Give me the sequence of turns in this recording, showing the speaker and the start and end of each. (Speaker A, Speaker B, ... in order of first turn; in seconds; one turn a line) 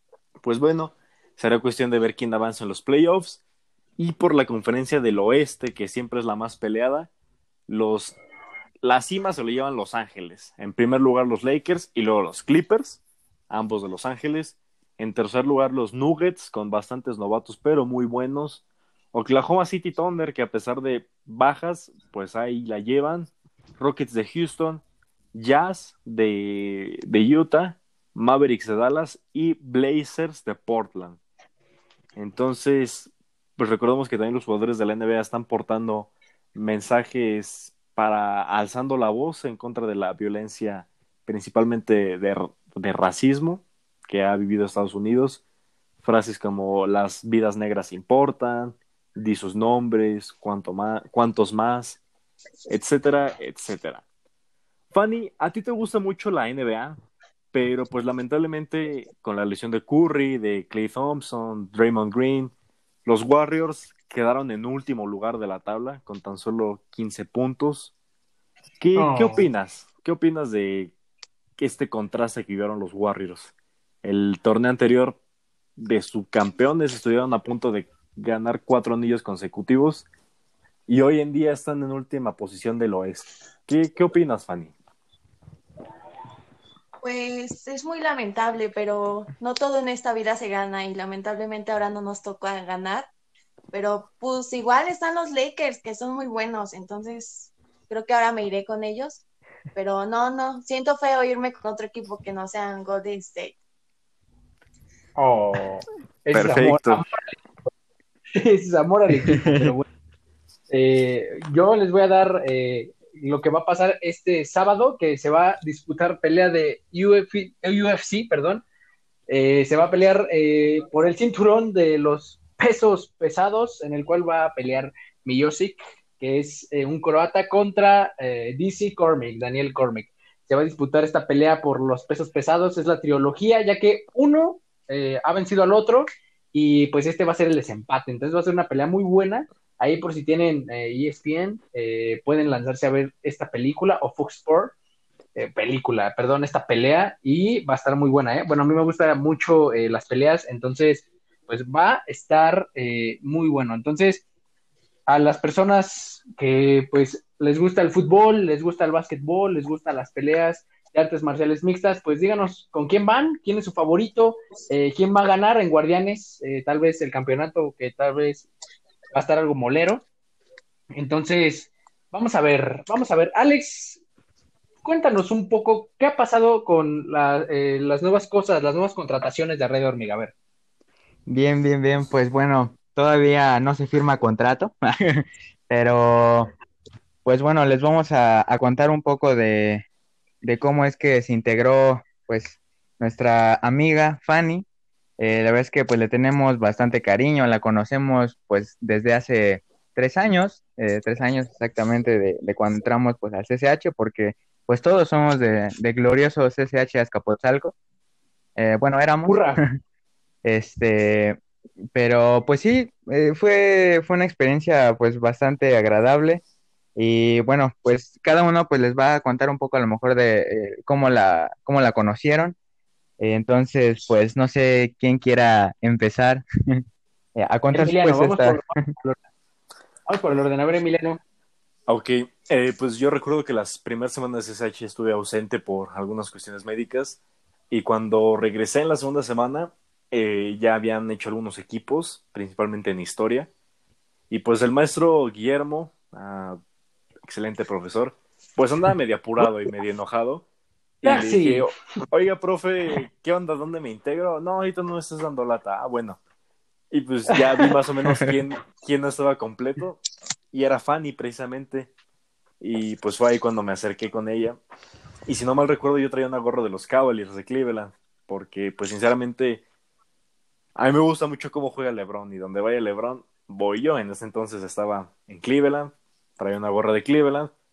Speaker A: 0.4-3.4
Speaker A: 4.0-7.1
Speaker A: 7.7-8.2
Speaker A: 8.8-31.2
Speaker A: 32.1-45.4
Speaker A: 46.0-52.0
Speaker A: 52.7-54.0
Speaker A: 54.9-57.0
Speaker A: 57.5-62.5
Speaker A: 63.0-67.9
Speaker A: 68.8-70.9
Speaker B: 68.9-69.5
Speaker A: 71.6-73.5
Speaker A: 74.0-75.2
Speaker A: 75.8-80.1
Speaker A: 80.9-84.7
Speaker C: 87.0-93.1
Speaker C: 93.7-99.2
Speaker C: 99.7-103.5
Speaker B: 105.2-107.3
Speaker A: 106.3-107.0
Speaker B: 108.3-109.9
Speaker D: 109.3-109.6
Speaker B: 110.7-118.6
Speaker B: 119.3-144.7
Speaker B: 145.3-154.2
Speaker B: 155.1-168.5
Speaker B: 169.1-170.0
Speaker B: 170.9-174.0
Speaker B: 174.8-180.3
Speaker D: 181.3-186.5
Speaker D: 187.2-189.8
Speaker D: 190.4-194.7
Speaker D: 195.2-207.7
Speaker D: 208.6-209.7
Speaker B: 209.3-209.6
Speaker D: 210.4-211.4
Speaker D: 211.9-216.4
Speaker D: 216.9-222.6
Speaker D: 223.2-226.8
Speaker D: 227.3-228.8
Speaker B: 227.7-229.2
Speaker B: 230.1-231.2
Speaker A: 231.9-237.2
Speaker A: 237.7-243.5
Speaker A: 244.3-246.6
Speaker A: 247.3-250.4
Speaker A: 251.0-256.2
Speaker B: 251.0-251.7
Speaker A: 256.9-260.0
Speaker A: 260.5-261.9
Speaker A: 262.6-264.6
Speaker A: 265.2-269.6
Speaker A: 270.8-277.5